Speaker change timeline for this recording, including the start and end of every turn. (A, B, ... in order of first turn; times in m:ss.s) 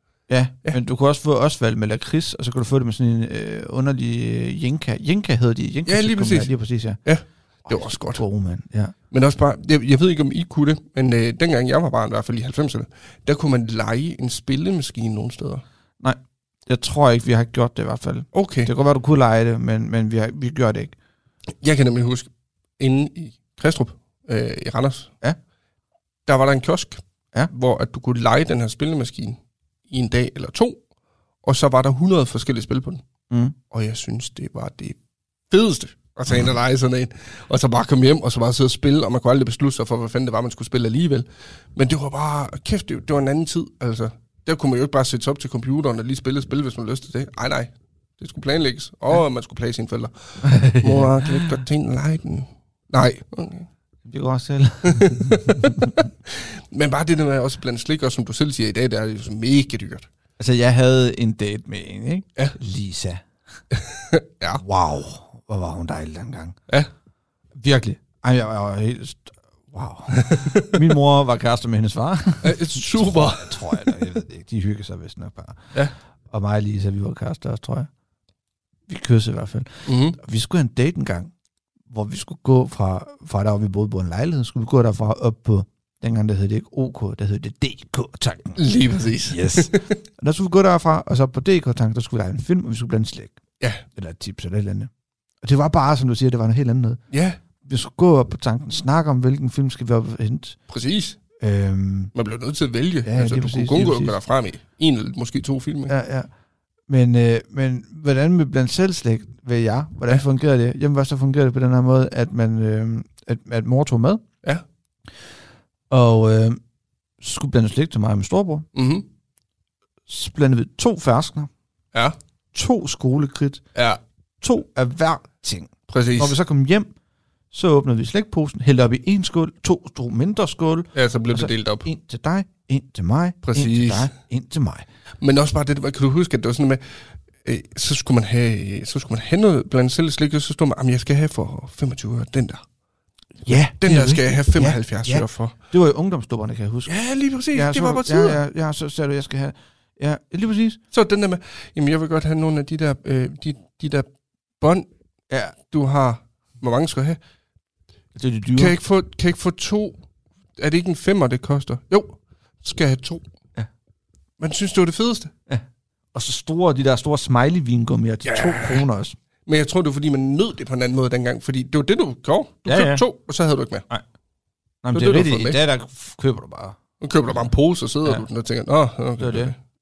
0:00.3-0:07.0 A
0:05.9-0:06.5 B
0:07.0-0:08.2 B
0:07.6-0:08.9 A
0:09.1-0:15.6 B
0:16.0-0:20.9 A
0:18.3-0:18.7 B
0:21.6-0:25.1 B
0:26.2-0:30.8 B
0:31.4-0:33.0 B
0:33.3-0:33.5 A
0:33.7-0:35.0 B
0:35.5-0:53.7 B
0:50.4-0:51.6 A
0:54.0-0:56.0 A
0:54.9-1:00.1 B
1:00.4-1:03.2 A
1:03.8-1:04.6 B
1:04.5-1:06.6 A
1:07.6-1:15.8 A
1:10.2-1:10.7 B
1:12.4-1:13.8 B
1:16.3-1:17.9 A
1:18.9-1:21.3 A
1:19.8-1:20.2 B
1:21.9-1:28.6 A
1:28.6-1:29.9 B
1:29.3-1:33.4 A
1:33.9-1:34.9 A
1:35.4-1:37.0 A
1:37.1-1:37.4 B
1:37.6-1:40.6 A
1:40.7-1:41.2 B
1:41.4-1:42.1 A
1:42.1-1:45.9 B
1:43.0-1:44.2 A
1:45.9-1:46.3 A
1:46.9-1:54.2 A
1:55.9-1:56.6 A
1:57.2-1:58.7 A
1:58.7-1:59.1 B
2:00.1-2:01.5 A
2:02.5-2:03.6 A
2:04.4-2:06.9 A
2:05.9-2:06.4 B
2:07.5-2:14.8 A
2:10.9-2:11.9 B
2:13.4-2:14.1 B
2:15.2-2:22.6 B
2:23.4-2:26.9 A
2:23.8-2:25.5 B
2:26.9-2:28.4 B
2:27.5-2:30.8 A
2:30.9-2:34.1 B
2:34.6-2:34.9 B
2:35.3-2:35.5 A
2:35.6-2:37.2 B
2:38.1-2:38.8 A
2:38.5-2:40.0 B
2:40.6-2:43.2 B
2:44.4-2:45.3 B
2:45.5-2:49.2 A
2:48.2-2:48.8 B
2:49.5-2:53.8 B
2:52.6-2:53.0 A
2:54.8-2:56.8 A
2:54.9-2:55.6 B
2:57.0-2:59.5 B
2:59.2-2:59.5 A